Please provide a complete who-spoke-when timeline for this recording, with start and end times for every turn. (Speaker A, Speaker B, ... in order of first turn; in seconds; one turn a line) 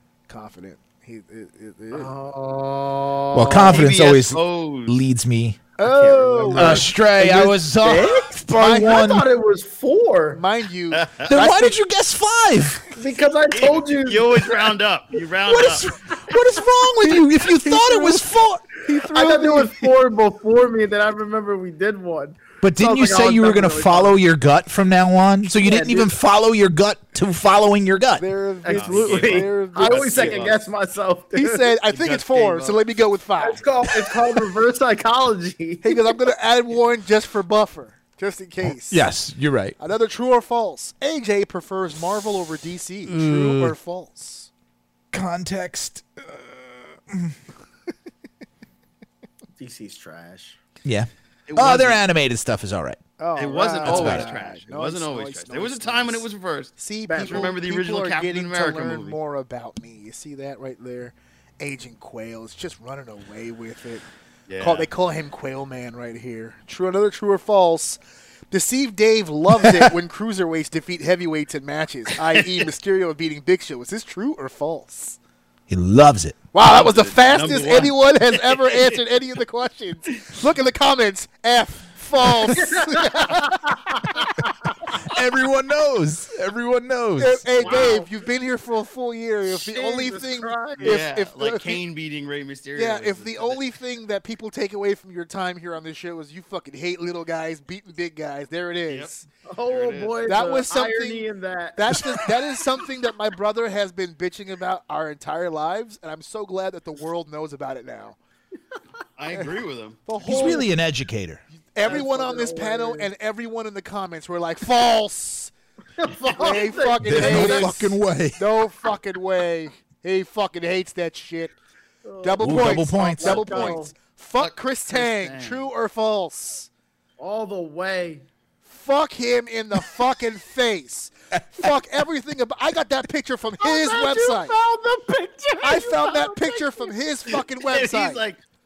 Speaker A: 0.3-2.1
Speaker B: 1.9-3.9
Speaker C: 3.3-5.6
Speaker D: 3.6-5.0
Speaker A: 5.8-6.9
Speaker B: 5.9-10.4
Speaker D: 6.0-6.8
Speaker C: 6.5-9.2
Speaker A: 8.6-9.1
Speaker A: 10.3-11.8
Speaker D: 10.9-11.4
Speaker C: 11.3-12.9
Speaker B: 12.9-14.7
Speaker D: 13.5-16.0
Speaker C: 15.4-18.6
Speaker A: 17.1-19.9
Speaker B: 17.6-18.1
Speaker B: 19.0-24.2
Speaker C: 22.6-28.2
Speaker B: 25.5-26.1
Speaker A: 28.2-30.5
Speaker B: 28.6-31.7
Speaker D: 28.7-30.6
Speaker A: 31.3-34.1
Speaker D: 31.9-32.8
Speaker B: 33.4-36.1
Speaker A: 35.8-39.1
Speaker C: 38.9-39.8
Speaker A: 39.8-44.5
Speaker C: 43.1-43.8
Speaker C: 45.1-47.4
Speaker B: 49.6-50.6
Speaker C: 50.8-53.0
Speaker D: 51.5-52.0
Speaker A: 53.2-64.0
Speaker D: 53.4-59.2
Speaker C: 53.9-54.3
Speaker B: 57.1-57.6
Speaker D: 64.5-64.9
Speaker A: 64.6-68.0
Speaker A: 68.5-75.2
Speaker C: 75.7-76.4
Speaker A: 76.5-84.3
Speaker D: 76.6-79.0
Speaker B: 82.4-84.5
Speaker C: 85.0-87.4
Speaker A: 87.2-91.8
Speaker B: 87.6-88.1
Speaker B: 89.5-91.0
Speaker D: 90.8-93.6
Speaker A: 92.8-99.3
Speaker B: 99.5-102.3
Speaker D: 99.7-100.2
Speaker A: 100.3-108.2
Speaker D: 109.2-110.1
Speaker A: 110.1-110.7
Speaker C: 110.2-111.4
Speaker A: 111.7-115.5
Speaker B: 111.8-113.1
Speaker B: 116.0-117.7
Speaker A: 116.3-121.6
Speaker C: 117.0-118.4
Speaker B: 122.0-123.9
Speaker A: 122.2-126.7
Speaker C: 122.4-123.8
Speaker D: 124.4-125.7
Speaker B: 127.2-128.3
Speaker A: 128.7-134.6
Speaker B: 133.6-137.0
Speaker A: 135.6-138.2
Speaker D: 137.6-138.4